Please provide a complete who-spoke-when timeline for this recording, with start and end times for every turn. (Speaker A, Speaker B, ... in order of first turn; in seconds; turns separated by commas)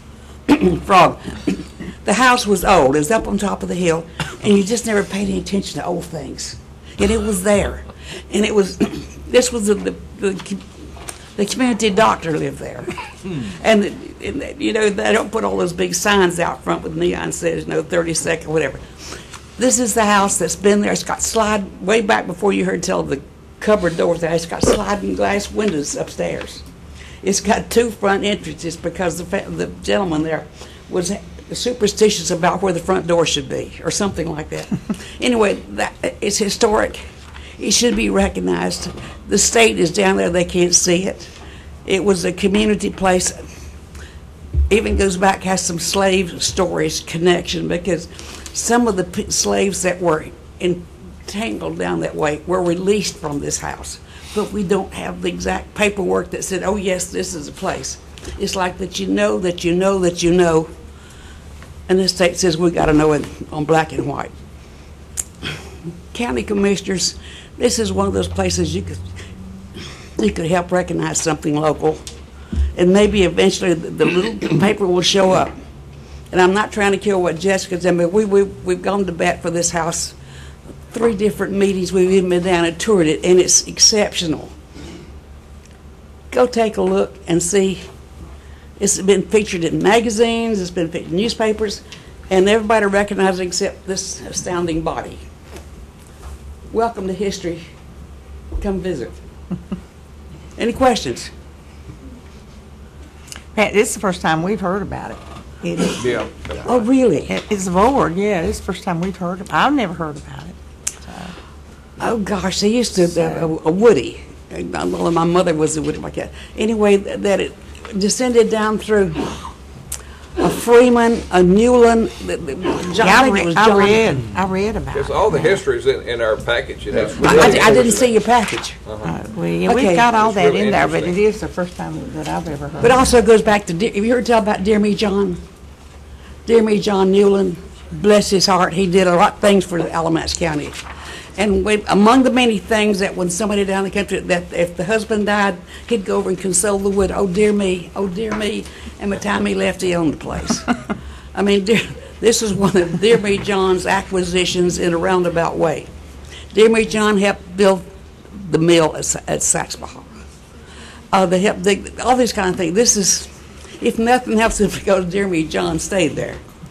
Speaker A: 0.5-10.8, Speaker A: 11.3-26.6, Speaker A: 27.2-37.0, Speaker A: 37.6-41.3, Speaker A: 41.8-43.4, Speaker A: 44.7-60.7, Speaker A: 61.9-64.3, Speaker A: 66.1-69.1, Speaker A: 70.2-72.1, Speaker A: 72.7-75.5, Speaker A: 76.3-80.2, Speaker A: 80.9-84.5, Speaker A: 86.3-87.9, Speaker A: 88.8-95.2, Speaker A: 96.7-97.7, Speaker A: 98.6-99.2, Speaker A: 100.6-101.3, Speaker B: 103.5-106.2, Speaker C: 106.0-106.7, Speaker A: 106.7-107.3, Speaker B: 107.2-111.3, Speaker A: 112.0-119.5, Speaker B: 113.0-113.5, Speaker A: 120.4-124.2, Speaker B: 122.9-125.4, Speaker C: 124.9-128.2, Speaker A: 127.1-128.8, Speaker B: 127.2-127.8, Speaker C: 128.8-129.2, Speaker B: 129.0-133.0, Speaker A: 129.7-130.1, Speaker C: 130.1-131.2, Speaker A: 132.8-135.4, Speaker A: 136.4-140.8, Speaker A: 141.3-150.7, Speaker A: 151.3-155.9, Speaker A: 156.5-160.1, Speaker A: 161.1-166.4